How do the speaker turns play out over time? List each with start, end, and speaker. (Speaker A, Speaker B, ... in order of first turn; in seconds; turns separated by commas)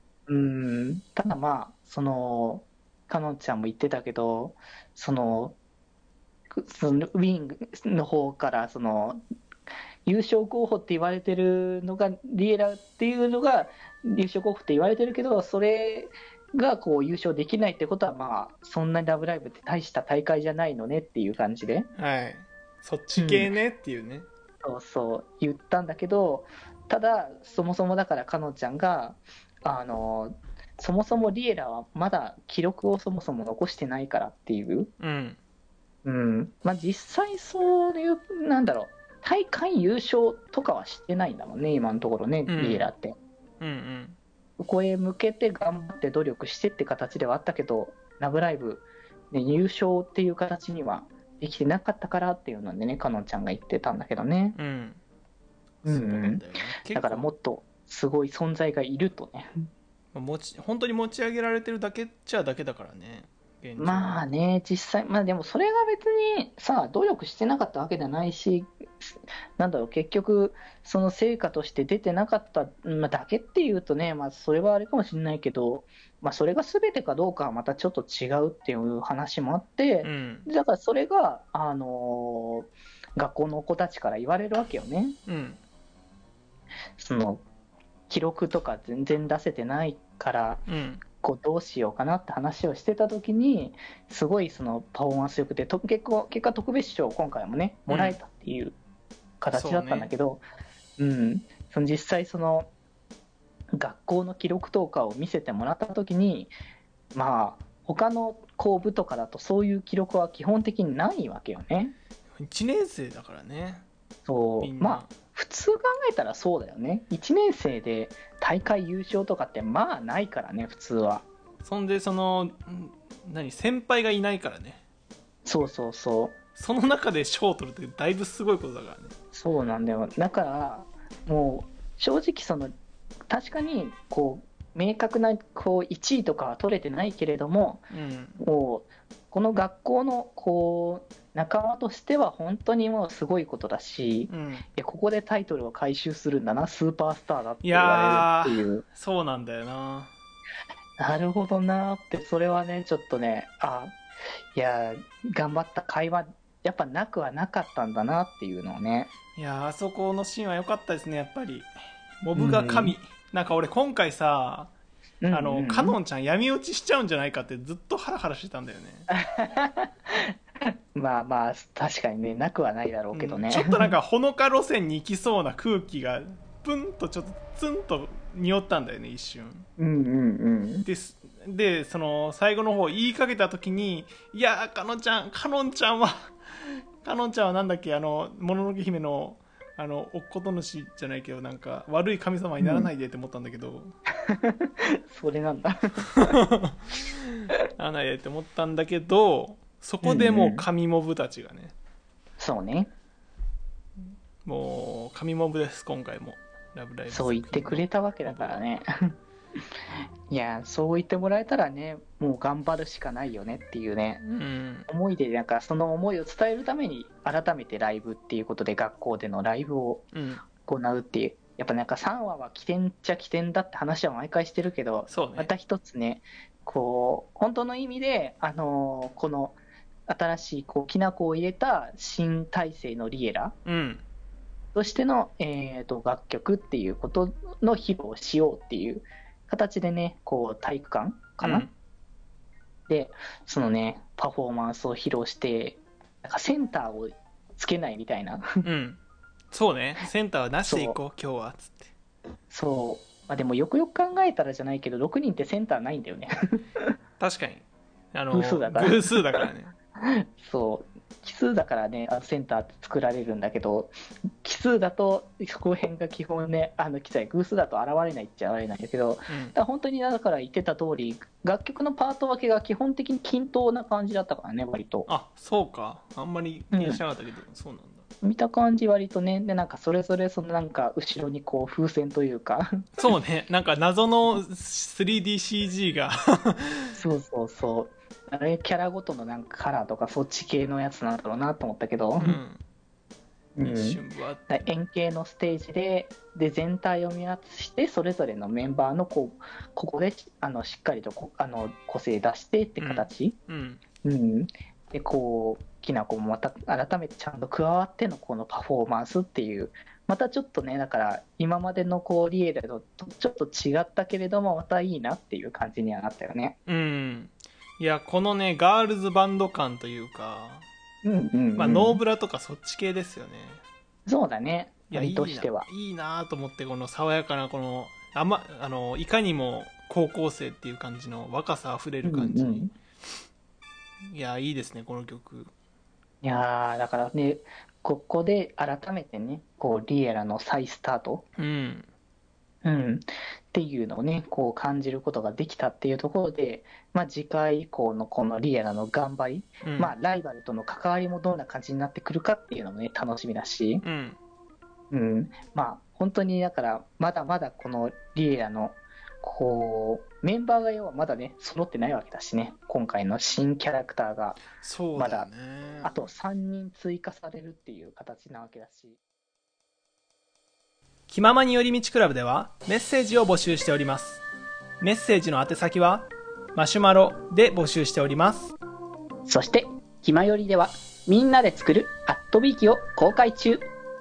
Speaker A: 0.3-5.6, Speaker A: 6.5-9.2, Speaker A: 10.1-21.9, Speaker B: 21.9-24.3, Speaker A: 23.1-23.5, Speaker A: 24.6-34.9, Speaker B: 35.0-35.4, Speaker A: 36.0-43.1, Speaker B: 42.5-42.9, Speaker B: 43.6-44.2, Speaker A: 44.6-54.6, Speaker B: 54.5-55.0, Speaker B: 55.8-57.3, Speaker A: 55.8-59.7, Speaker B: 60.1-64.2, Speaker A: 63.8-85.2, Speaker B: 80.0-80.5, Speaker B: 85.3-85.6, Speaker A: 87.0-87.4, Speaker A: 88.1-98.8, Speaker B: 90.7-91.0, Speaker B: 97.9-98.2, Speaker A: 99.4-100.4, Speaker B: 99.5-100.1, Speaker A: 101.0-102.7, Speaker A: 103.7-106.5, Speaker A: 107.1-112.0, Speaker B: 112.4-113.8, Speaker A: 114.2-121.2, Speaker B: 114.6-115.1, Speaker B: 121.6-124.8, Speaker A: 125.4-126.3, Speaker B: 126.5-129.1, Speaker A: 129.3-132.7, Speaker A: 133.3-137.9, Speaker B: 137.9-138.4, Speaker A: 138.4-148.8, Speaker B: 144.3-144.6, Speaker B: 147.6-150.1, Speaker A: 151.0-153.9, Speaker A: 154.5-159.1, Speaker B: 159.3-164.7, Speaker A: 162.3-162.9, Speaker A: 165.2-166.0, Speaker B: 165.3-169.1, Speaker A: 169.1-174.0, Speaker B: 173.1-179.7, Speaker A: 179.8-180.9, Speaker B: 180.8-193.9, Speaker A: 192.6-192.9, Speaker A: 194.3-196.4, Speaker B: 196.3-201.7, Speaker A: 200.0-200.7, Speaker A: 202.4-202.9, Speaker B: 204.4-208.6, Speaker A: 207.1-209.1, Speaker A: 210.3-214.3, Speaker B: 214.3-214.9, Speaker A: 214.9-233.6, Speaker B: 220.1-220.4, Speaker B: 225.1-225.5, Speaker B: 233.6-234.0, Speaker A: 234.7-241.7, Speaker B: 241.4-241.7, Speaker A: 242.9-248.4, Speaker B: 248.6-249.0, Speaker B: 249.5-251.9, Speaker A: 250.6-251.0, Speaker A: 252.5-256.9, Speaker B: 257.2-259.8, Speaker A: 258.3-259.4, Speaker A: 260.2-275.1, Speaker B: 269.3-269.5, Speaker B: 275.1-278.0, Speaker A: 276.7-277.0, Speaker A: 278.2-282.9, Speaker B: 283.0-287.0, Speaker A: 286.9-292.4, Speaker B: 292.2-292.6, Speaker A: 293.6-303.4, Speaker B: 293.6-294.7, Speaker B: 302.8-303.8, Speaker A: 304.0-316.6, Speaker B: 316.6-320.6, Speaker A: 321.0-322.0, Speaker B: 321.5-323.6, Speaker A: 324.1-325.7, Speaker B: 324.9-332.7, Speaker A: 332.0-332.7, Speaker B: 334.1-335.5, Speaker A: 336.2-341.2, Speaker B: 341.4-341.9, Speaker A: 342.6-353.8, Speaker B: 349.6-349.9, Speaker B: 353.8-354.2, Speaker A: 354.9-364.4, Speaker B: 364.5-366.1, Speaker A: 364.9-365.3, Speaker A: 365.8-369.0, Speaker B: 371.1-374.2, Speaker B: 374.8-378.5, Speaker C: 379.4-383.7